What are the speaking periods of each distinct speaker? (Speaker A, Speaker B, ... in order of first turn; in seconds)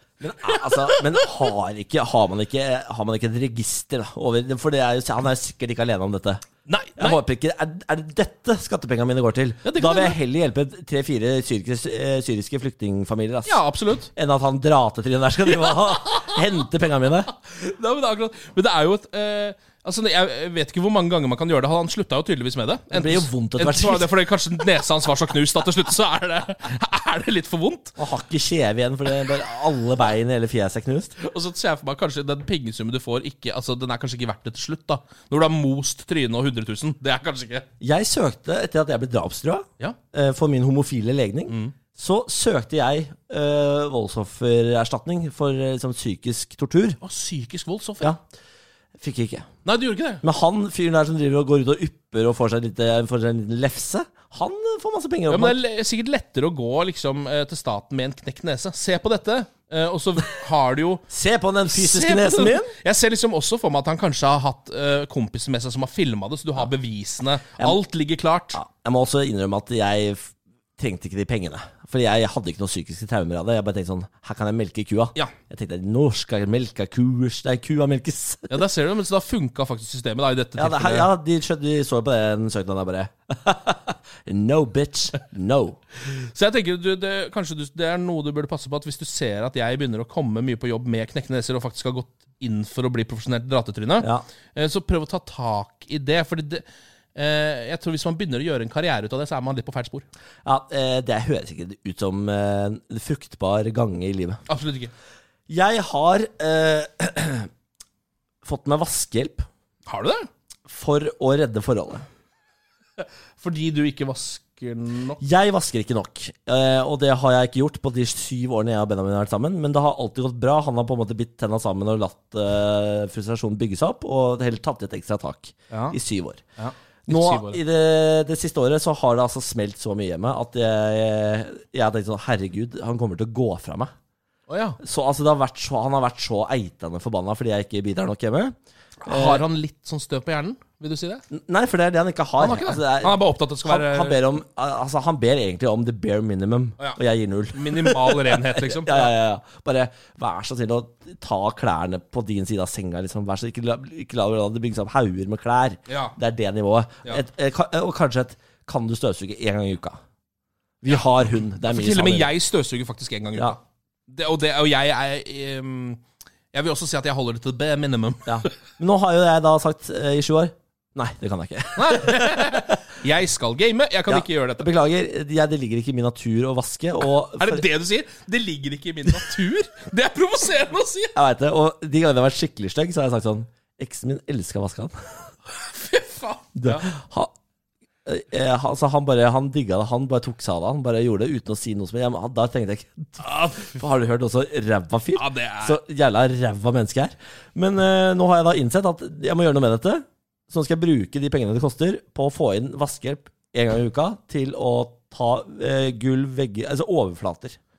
Speaker A: 0.2-6.4, 7.0-13.6, 14.1-17.3, 22.9-24.1, 28.0-31.1, 37.8-47.0, 49.0-49.5, 50.2-55.6, 61.1-62.7, 68.5-78.6, 80.6-85.8, 100.4-104.4, 105.5-107.5, 108.4-109.5, 110.7-112.0, 115.2-126.4, 127.1-133.9, 134.8-138.5, 139.1-139.4, 141.3-160.0, 160.8-162.3, 168.2-172.8, 174.1-177.6, 181.1-184.9, 186.6-187.3, 188.1-207.6
Speaker B: 0.4-1.5, 6.7-7.2, 9.6-10.2, 13.4-14.1, 15.4-16.6, 17.3-28.0, 31.2-37.6, 41.5-41.7, 47.0-48.1, 49.6-50.2, 55.3-61.0, 61.7-68.6, 78.5-81.1, 86.0-100.0, 104.5-104.9, 109.8-110.3, 113.0-115.2, 125.7-126.0, 126.6-127.6, 134.5-134.8, 139.0-141.2, 142.4-144.2, 147.5-149.1, 155.9-156.1, 161.6-166.0, 166.5-168.5, 171.8-174.7, 177.4-181.1, 185.5-186.9, 193.2-193.8, 195.1-195.8